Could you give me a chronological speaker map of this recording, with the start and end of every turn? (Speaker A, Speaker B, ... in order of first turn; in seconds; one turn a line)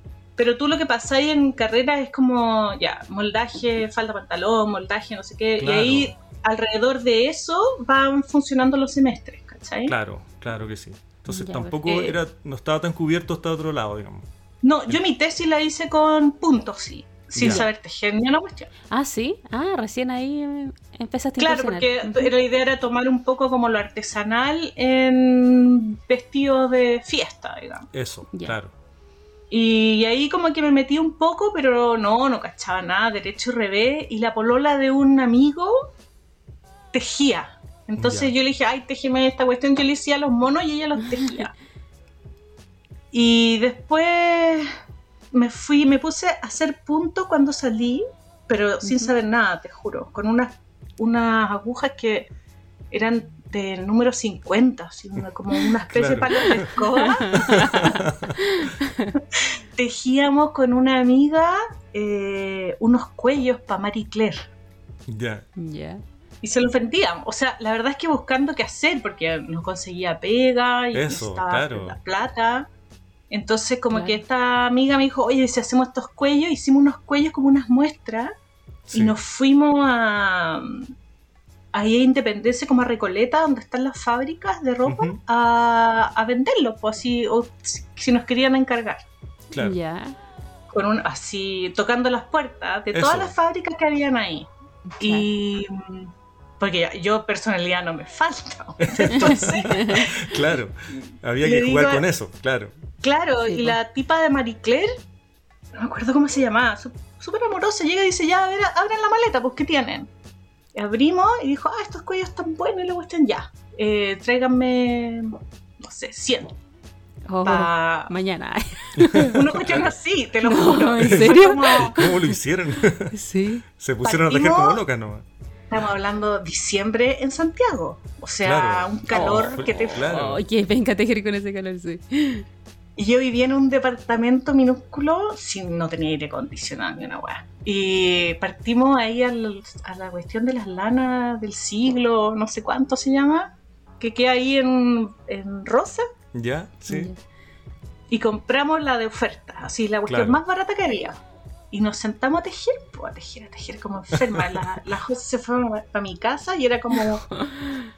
Speaker A: 0.4-9.9
Speaker B: 5.6-6.1
Speaker B: 9.9-14.3
Speaker C: 11.3-11.8
Speaker A: 11.9-12.2
Speaker A: 14.6-18.7
Speaker B: 17.4-17.6
Speaker C: 18.9-22.3
Speaker A: 21.4-27.9
Speaker B: 27.9-28.7
Speaker A: 29.5-35.8
Speaker A: 36.9-41.5
Speaker B: 38.0-38.3
Speaker A: 43.1-44.7
Speaker A: 45.3-52.3
Speaker C: 48.8-49.1
Speaker A: 52.9-58.0
Speaker B: 55.9-58.4
Speaker C: 57.0-59.1
Speaker A: 59.1-64.5
Speaker B: 65.1-65.5
Speaker C: 65.6-66.0
Speaker A: 66.4-72.7
Speaker B: 70.9-72.0
Speaker A: 73.3-78.3
Speaker C: 73.9-74.2
Speaker B: 78.9-79.2
Speaker A: 78.9-80.9
Speaker A: 81.7-89.0
Speaker B: 84.9-85.2
Speaker B: 89.5-89.8
Speaker C: 89.6-90.2
Speaker A: 90.7-94.5
Speaker B: 92.9-93.3
Speaker C: 94.9-95.3
Speaker A: 95.0-100.4
Speaker B: 98.8-102.7
Speaker C: 99.2-100.1
Speaker A: 101.4-102.0
Speaker A: 103.0-104.9
Speaker C: 103.5-103.8
Speaker A: 105.7-110.1
Speaker A: 110.7-116.5
Speaker C: 117.3-119.5
Speaker A: 117.4-118.1
Speaker B: 119.0-119.9
Speaker A: 119.2-122.1
Speaker C: 120.4-122.4
Speaker B: 121.0-123.2
Speaker C: 123.1-123.6
Speaker B: 123.7-125.2
Speaker A: 124.0-124.8
Speaker A: 125.7-130.1
Speaker B: 128.4-130.4
Speaker C: 129.1-132.5
Speaker A: 133.0-146.1
Speaker B: 146.3-147.1
Speaker C: 146.9-147.2
Speaker A: 148.1-151.2
Speaker B: 150.1-150.4
Speaker A: 151.7-157.3
Speaker B: 154.2-154.7
Speaker C: 157.4-157.8